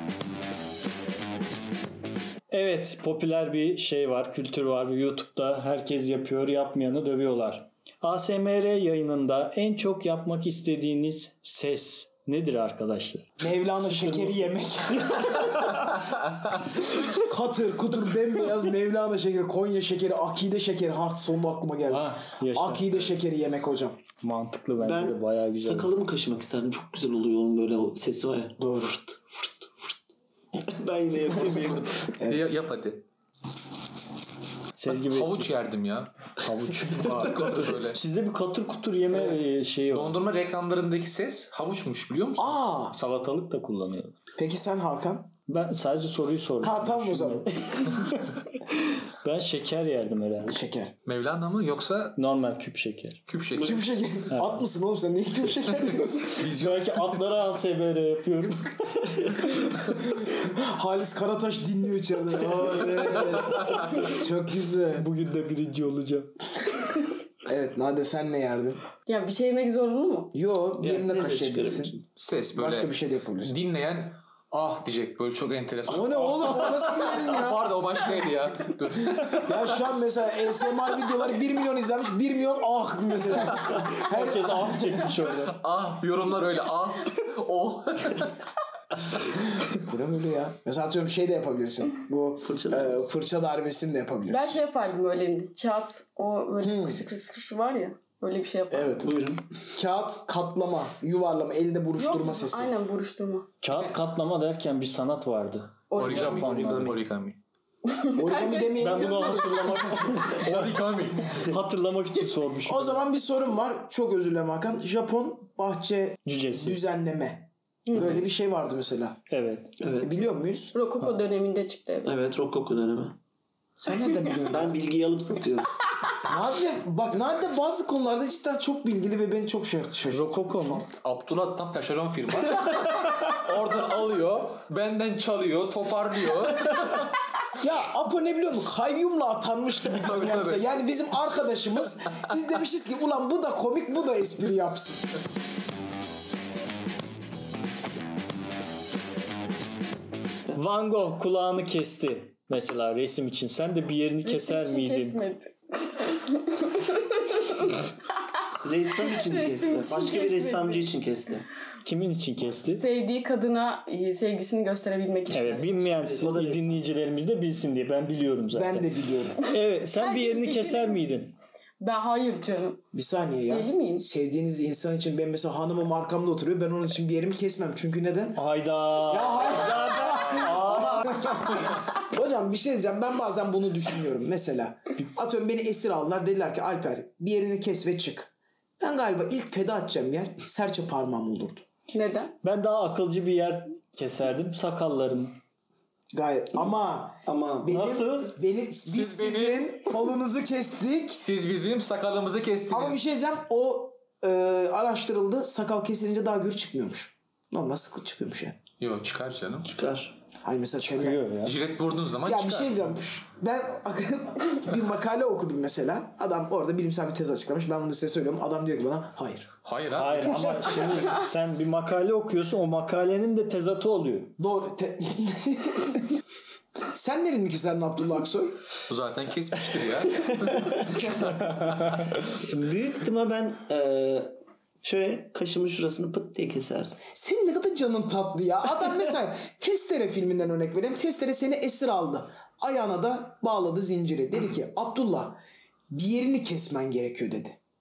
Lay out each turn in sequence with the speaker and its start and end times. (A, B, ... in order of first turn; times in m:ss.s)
0:02.5-0:14.4 A
0:13.4-0:15.8 B
0:17.1-0:24.0 B
0:21.9-0:23.1 A
0:24.2-0:25.9 A
0:24.8-0:30.0 C
0:28.6-0:29.0 B
0:30.6-0:31.9 C
0:31.4-0:33.1 D
0:34.8-0:35.6 A
0:34.9-0:38.0 D
0:36.4-0:40.2 A
0:39.9-0:42.6 D
0:42.4-0:43.0 B
0:42.9-0:44.2 A
0:44.4-0:45.3 B
0:45.5-0:50.6 A
0:46.6-0:47.7 B
0:50.5-0:50.9 B
0:51.1-0:52.2 D
0:52.2-0:53.2 A
0:53.3-0:53.8 D
0:53.6-0:56.4 B
0:54.3-0:54.6 A
0:56.3-0:57.2 D
0:56.4-0:59.2 A
1:00.1-1:05.1 B
1:03.5-1:04.1 D
1:04.9-1:06.3 A
1:07.5-1:08.8 B
1:09.1-1:10.3 E
1:10.3-1:11.9 B
1:10.8-1:12.0 C
1:12.2-1:19.8 D
1:12.5-1:13.6 B
1:15.9-1:17.7 B
1:19.4-1:25.1 B
1:24.0-1:25.6 A
1:25.4-1:28.4 D
1:29.6-1:34.6 B
1:32.4-1:33.0 C
1:34.3-1:39.0 E
1:36.6-1:37.0 B
1:38.7-1:39.2 B
1:39.0-1:39.5 C
1:39.7-1:42.7 B
1:42.0-1:43.5 E
1:43.6-1:47.0 A
1:45.9-1:46.4 E
1:46.0-1:47.4 D
1:46.0-1:47.0 C
1:47.9-1:49.4 E
1:48.2-1:50.3 B
1:48.8-1:53.0 A
1:50.4-1:51.4 D
1:52.6-1:59.2 B
1:56.3-1:56.8 A
1:57.9-1:58.2 E
1:59.3-1:59.7 A
1:59.8-2:00.1 C
2:00.0-2:00.8 B
2:00.7-2:02.3 E
2:02.0-2:03.2 C
2:03.8-2:04.8 B
2:04.5-2:05.7 C
2:06.2-2:10.6 B
2:10.1-2:10.9 A
2:10.8-2:17.2 D
2:17.6-2:25.1 B
2:20.0-2:20.8 D
2:30.5-2:35.2 A
2:34.2-2:37.8 E
2:38.6-2:41.5 C
2:39.0-2:40.9 E
2:41.8-2:42.8 A
2:42.7-2:45.8 E
2:45.3-2:51.4 A
2:45.6-2:46.8 C
2:48.5-2:49.4 B
2:50.0-2:51.0 E
2:51.8-2:52.8 E
2:52.9-3:11.6 B
2:53.5-2:54.1 E
2:58.4-3:01.4 A
3:11.9-3:12.4 E
3:12.4-3:15.3 A
3:16.1-3:21.2 B
3:17.3-3:17.9 C
3:17.7-3:18.3 A
3:18.9-3:19.8 D
3:21.1-3:23.0 D
3:22.7-3:28.6 B
3:28.8-3:29.7 D
3:29.7-3:30.2 C
3:30.4-3:31.3 B
3:30.8-3:31.6 A
3:31.4-3:32.9 D
3:32.2-3:39.5 B
3:39.6-3:40.5 D
3:40.0-3:44.3 A
3:40.5-3:41.0 B
3:44.4-3:46.2 B
3:46.9-3:48.6 B
3:48.9-3:52.1 D
3:52.2-3:57.0 C
3:57.1-4:05.4 B
4:05.9-4:07.6 B